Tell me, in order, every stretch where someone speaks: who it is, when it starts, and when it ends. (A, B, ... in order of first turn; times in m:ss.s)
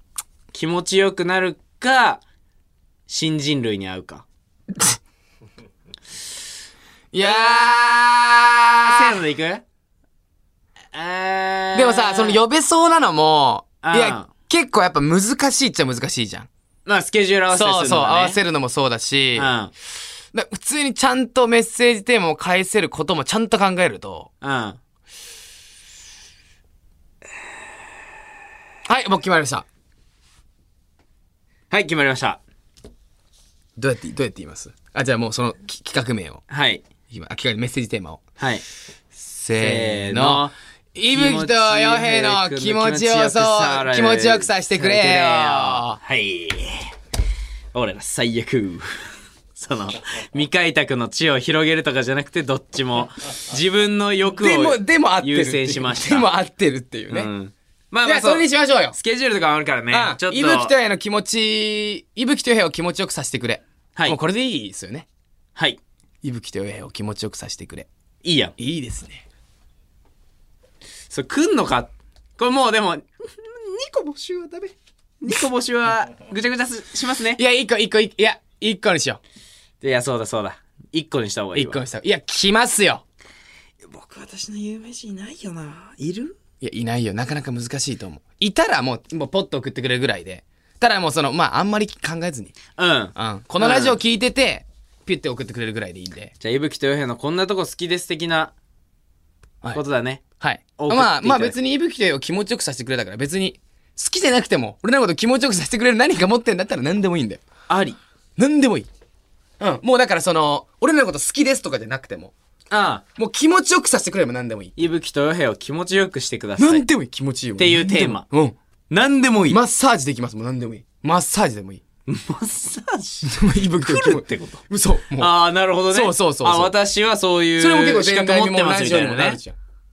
0:00.5-0:02.2 A
0:03.1-0:04.2 A
0:07.1-0:09.2 B
0:07.2-0:08.0 A
0:08.8-0:09.6 A
0:10.9-0:12.4 A
0:11.7-0:16.5 B
0:13.8-0:14.3 A
0:16.9-0:18.4 A
0:17.5-0:19.5 B
0:19.4-0:19.7 A
0:20.3-0:24.3 B
0:24.4-0:24.8 A
0:28.9-0:29.7 B
0:31.7-0:32.4 A
0:33.8-0:36.4 B
0:36.5-0:36.8 A
0:37.1-0:38.2 B
0:38.4-0:38.6 A
0:39.2-0:46.0 B
0:39.6-0:40.5 A
0:41.1-0:46.9 A
0:47.7-0:56.3 A
0:54.4-0:57.3 B
0:57.1-1:00.7 A
0:58.0-0:59.0 B
0:59.9-1:05.1 B
1:06.2-1:07.9 B
1:08.2-1:08.6 A
1:08.6-1:09.2 B
1:11.1-1:17.4 A
1:17.4-1:19.2 B
1:19.8-1:21.8 A
1:21.5-1:23.0 B
1:23.8-1:26.4 A
1:26.6-1:32.6 B
1:32.8-1:34.0 A
1:33.2-1:36.3 B
1:36.4-1:38.5 A
1:39.7-1:40.2 A
1:40.4-1:47.4 B
1:40.8-1:41.6 A
1:47.7-1:48.0 A
1:48.4-1:48.9 B
1:49.6-1:52.3 B
1:52.7-1:53.0 A
1:53.2-1:54.7 B
1:54.8-1:56.9 A
1:56.6-1:58.6 B
1:57.6-1:58.3 A
1:58.9-1:59.6 A
1:59.5-2:01.8 B
2:02.1-2:04.6 A
2:03.2-2:06.7 B
2:05.2-2:09.4 A
2:07.6-2:09.6 B